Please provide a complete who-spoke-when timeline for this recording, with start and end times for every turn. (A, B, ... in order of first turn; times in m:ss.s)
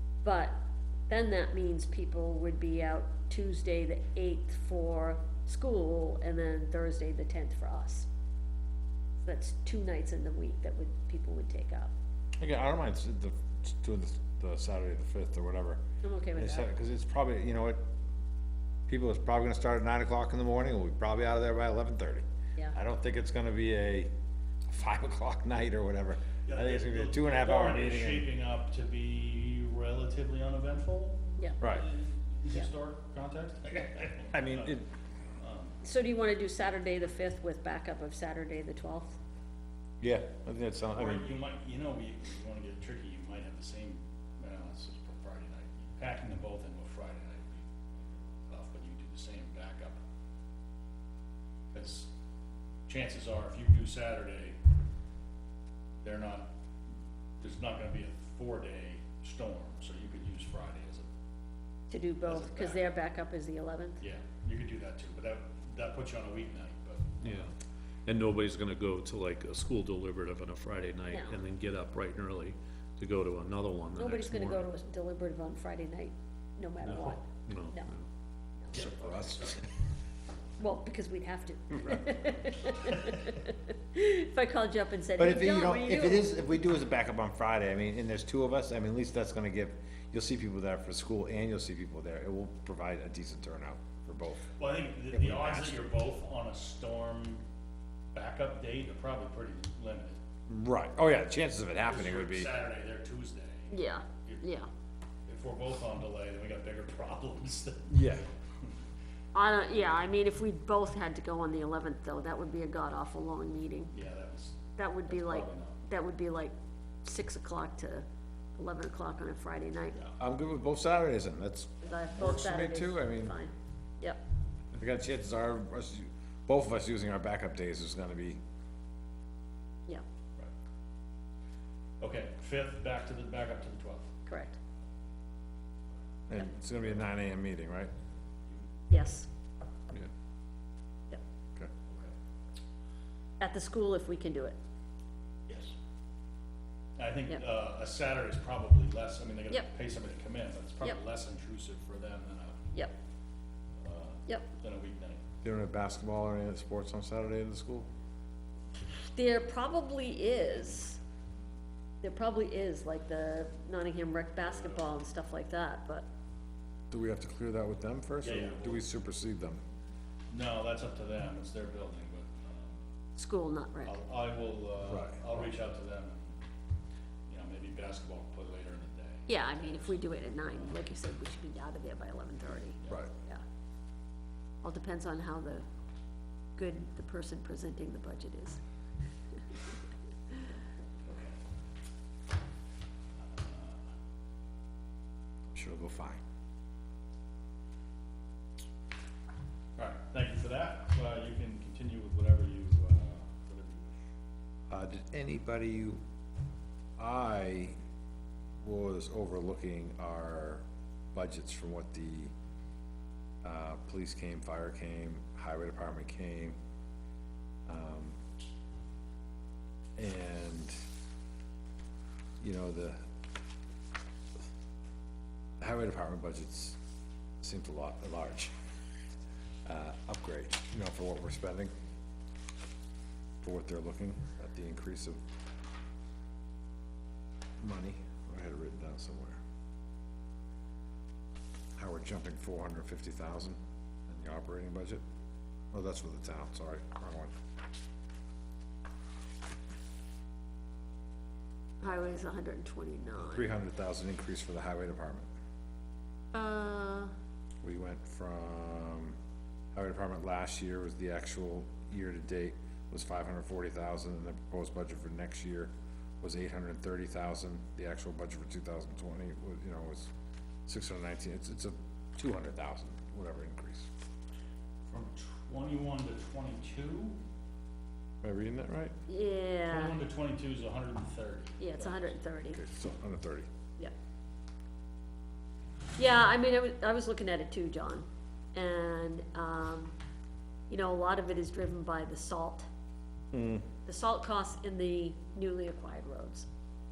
0:00.2-0:08.1 A
0:09.2-0:11.9 A
0:12.4-0:15.8 B
0:16.0-0:16.7 A
0:16.4-0:17.8 B
0:18.9-0:24.1 B
0:24.7-0:28.3 B
0:26.4-0:34.7 C
0:31.6-0:31.9 B
0:34.3-0:34.9 B
0:35.4-0:35.8 C
0:35.8-0:39.2 A
0:40.0-0:41.3 B
0:40.9-0:50.0 C
0:51.7-0:52.1 C
0:52.9-0:54.6 C
0:56.0-0:56.5 C
0:57.4-1:01.0 C
1:01.9-1:04.0 A
1:02.2-1:03.0 C
1:04.0-1:07.4 C
1:07.2-1:07.5 D
1:08.0-1:14.6 D
1:11.1-1:11.4 A
1:13.9-1:17.9 A
1:16.8-1:18.1 D
1:18.7-1:19.5 C
1:18.7-1:19.6 B
1:20.6-1:26.3 A
1:25.2-1:34.5 B
1:34.6-1:37.4 C
1:35.1-1:35.8 B
1:38.1-1:40.2 C
1:40.5-1:42.6 B
1:41.8-1:43.7 C
1:43.7-1:44.7 A
1:45.3-1:47.9 C
1:47.9-1:48.2 B
1:49.3-1:53.9 A
1:53.9-1:55.8 C
1:54.8-2:00.0 A
2:00.2-2:03.3 B
2:01.8-2:04.2 A
2:04.7-2:08.4 B
2:12.0-2:14.1 C
2:14.2-2:14.6 A
2:16.3-2:17.9 B
2:18.9-2:19.3 A
2:21.9-2:22.1 C
2:23.4-2:24.6 A
2:25.5-2:25.7 C
2:27.0-2:32.6 C
2:33.8-2:35.2 C
2:35.4-2:37.9 B
2:39.1-2:41.0 A
2:42.0-2:46.1 A
2:44.4-2:44.8 C
2:46.9-2:49.6 B
2:48.2-2:48.8 C
2:50.3-2:52.8 C
2:53.2-2:53.9 A
2:53.8-2:56.4 C
2:54.9-2:55.4 B
2:57.3-3:00.7 C
2:59.3-3:03.4 A
3:02.8-3:03.0 C
3:04.6-3:05.6 A
3:06.6-3:08.6 A
3:11.0-3:11.4 C
3:13.2-3:13.8 C
3:15.5-3:16.2 B
3:19.8-3:24.1 C
3:24.7-3:26.0 B
3:27.0-3:27.8 B
3:28.6-3:32.3 B
3:33.4-3:36.6 B
3:37.7-3:38.2 B
3:40.0-3:40.8 B
3:42.4-3:43.0 B
3:45.6-3:46.8 B
3:47.4-3:48.5 B
3:49.6-3:51.7 B
3:53.4-3:55.2 B
3:57.6-3:59.4 B
4:01.8-4:05.0 B
4:05.7-4:07.3 B
4:11.8-4:13.5 A
4:13.1-4:15.3 B
4:16.3-4:17.1 A
4:17.6-4:19.2 B
4:19.7-4:30.1 B
4:30.6-4:33.9 B
4:34.9-4:37.2 C
4:38.2-4:38.9 B
4:39.1-4:40.0 A
4:39.7-4:42.1 C
4:41.6-4:42.6 A
4:42.5-4:43.5 B
4:46.0-4:49.9 A
4:50.7-4:52.7 A
4:53.3-4:53.7 B
4:53.8-4:56.5 A